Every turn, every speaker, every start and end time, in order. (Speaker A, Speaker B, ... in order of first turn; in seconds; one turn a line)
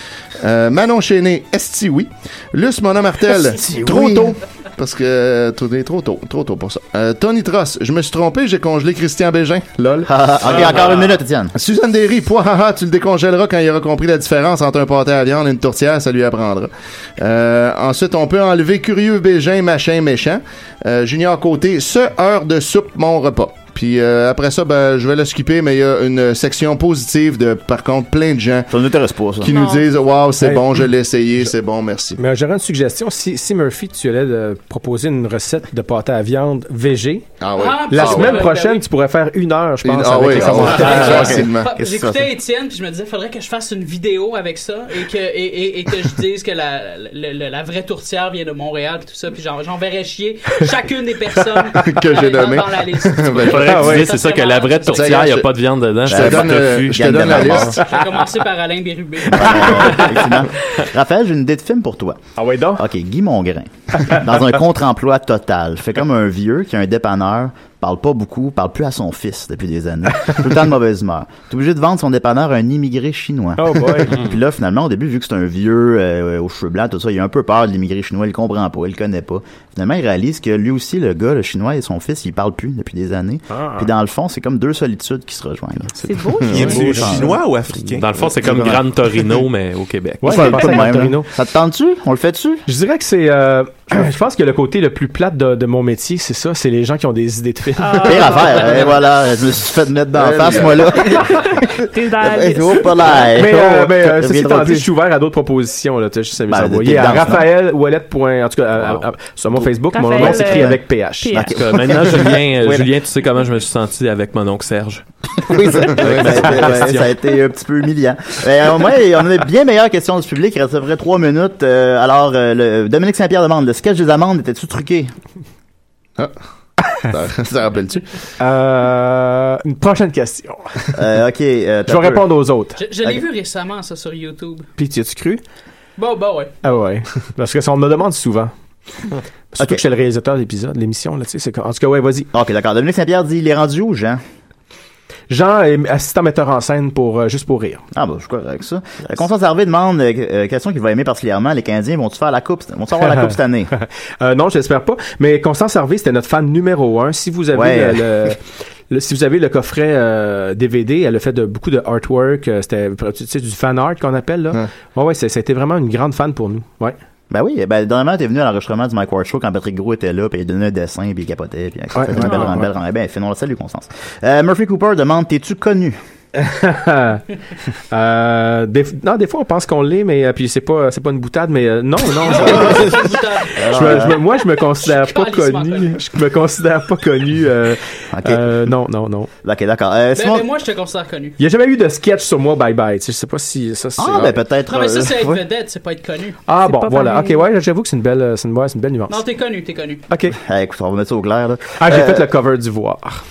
Speaker A: 0.4-10.8
Speaker B: 3.8-4.1
Speaker B: 10.1-11.5
Speaker C: 10.4-11.2
Speaker A: 11.5-28.7
Speaker B: 28.7-29.5
Speaker A: 29.4-32.2
Speaker D: 29.4-29.9
Speaker E: 30.4-30.8
Speaker E: 32.2-37.2
Speaker A: 37.4-38.4
Speaker F: 37.5-38.9
Speaker E: 37.9-41.4
Speaker A: 39.8-41.7
Speaker B: 40.3-42.3
Speaker F: 40.7-55.2
Speaker A: 51.8-53.8
Speaker C: 53.4-57.6
Speaker E: 53.5-54.1
Speaker A: 54.9-55.5
Speaker A: 56.0-57.8
Speaker B: 56.0-57.8
Speaker F: 57.8-60.0
Speaker B: 59.3-62.2
Speaker E: 62.4-62.8
Speaker B: 62.8-87.3
Speaker E: 73.6-74.2
Speaker E: 83.6-83.8
Speaker D: 86.0-87.0
Speaker G: 86.5-88.9
Speaker E: 86.8-87.1
Speaker C: 88.0-90.9
Speaker E: 90.2-91.3
Speaker B: 90.2-92.6
Speaker E: 92.7-98.7
Speaker D: 97.8-98.8
Speaker B: 98.0-101.5
Speaker A: 100.1-101.1
Speaker D: 101.1-102.9
Speaker B: 102.2-104.9
Speaker E: 103.3-111.3
Speaker B: 106.5-107.5
Speaker C: 108.8-109.0
Speaker B: 109.5-110.8
Speaker D: 109.9-111.6
Speaker B: 111.3-112.4
Speaker C: 111.5-117.1
Speaker E: 112.6-112.9
Speaker B: 115.5-125.1
Speaker A: 127.0-128.0
Speaker E: 128.4-130.6
Speaker B: 130.9-132.2
Speaker E: 131.9-132.8
Speaker F: 132.8-134.7
Speaker E: 134.8-135.4
Speaker F: 136.0-136.5
Speaker E: 136.6-138.5
Speaker E: 139.5-142.3
Speaker B: 142.3-144.2
Speaker E: 145.3-147.8
Speaker B: 147.9-153.7
Speaker E: 153.1-158.4
Speaker B: 157.5-158.1
Speaker E: 158.9-166.9
Speaker B: 167.3-176.0
Speaker E: 171.9-172.7
Speaker E: 176.3-177.2
Speaker E: 177.9-183.0
Speaker F: 182.2-186.0
Speaker B: 182.3-182.9
Speaker B: 183.6-184.2
Speaker E: 183.7-189.3
Speaker B: 188.1-188.5
Speaker B: 189.4-190.4
Speaker F: 190.1-191.4
Speaker E: 191.4-194.3
Speaker B: 194.0-195.4
Speaker F: 194.7-196.4
Speaker E: 196.5-199.2
Speaker D: 196.6-197.4
Speaker F: 199.1-200.1
Speaker E: 200.1-200.3
Speaker B: 200.4-202.3
Speaker E: 201.8-203.2